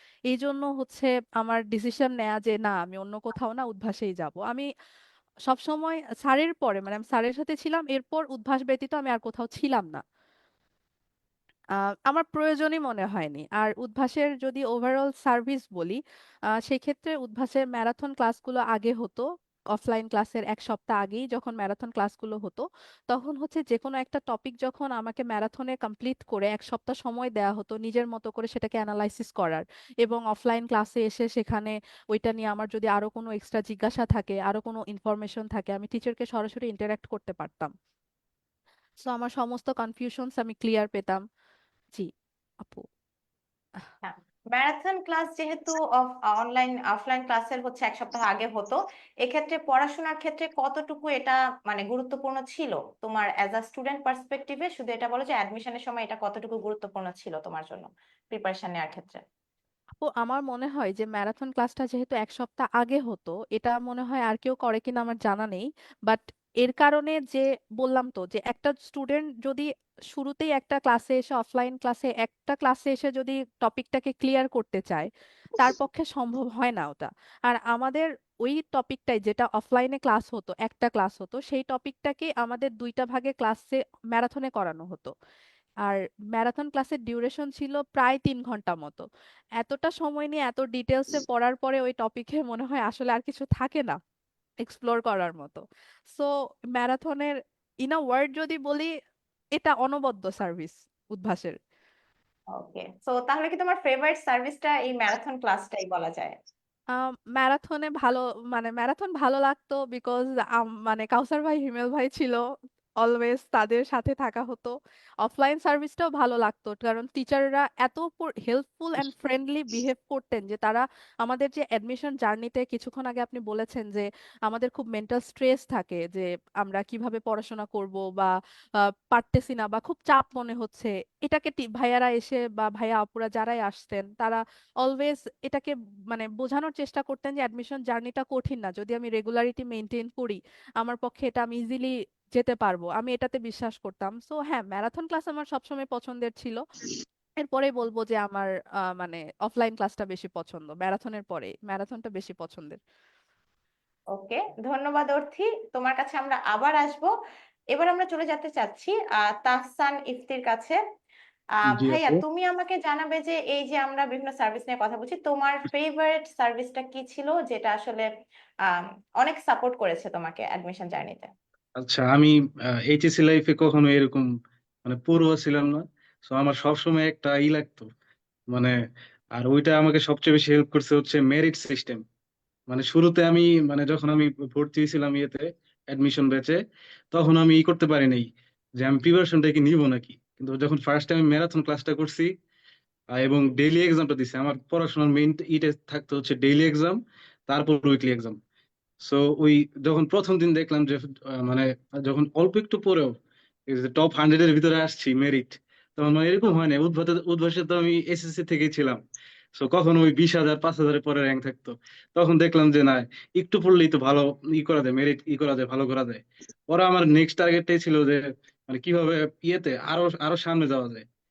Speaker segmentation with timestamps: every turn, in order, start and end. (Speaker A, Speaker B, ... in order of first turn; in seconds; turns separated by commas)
Speaker A: 0.3-4.7, Speaker A: 5.5-10.0, Speaker A: 12.1-16.0, Speaker A: 16.6-19.2, Speaker A: 19.7-37.7, Speaker A: 39.0-41.2, Speaker B: 44.0-59.2, Speaker A: 60.0-85.1, Speaker A: 85.8-89.0, Speaker A: 89.6-94.0, Speaker A: 94.6-98.9, Speaker A: 99.6-101.6, Speaker B: 102.5-106.3, Speaker A: 107.0-112.4, Speaker A: 113.0-114.7, Speaker A: 115.2-146.6, Speaker A: 147.4-152.8, Speaker B: 154.1-157.1, Speaker B: 157.7-160.8, Speaker B: 161.7-168.1, Speaker C: 161.7-162.2, Speaker B: 168.7-171.3, Speaker C: 171.8-172.3, Speaker C: 172.9-174.2, Speaker C: 174.8-177.9, Speaker C: 179.3-182.0, Speaker C: 182.7-186.6, Speaker C: 187.1-192.3, Speaker C: 193.1-198.4, Speaker C: 199.0-203.2, Speaker C: 203.7-209.0, Speaker C: 209.5-221.0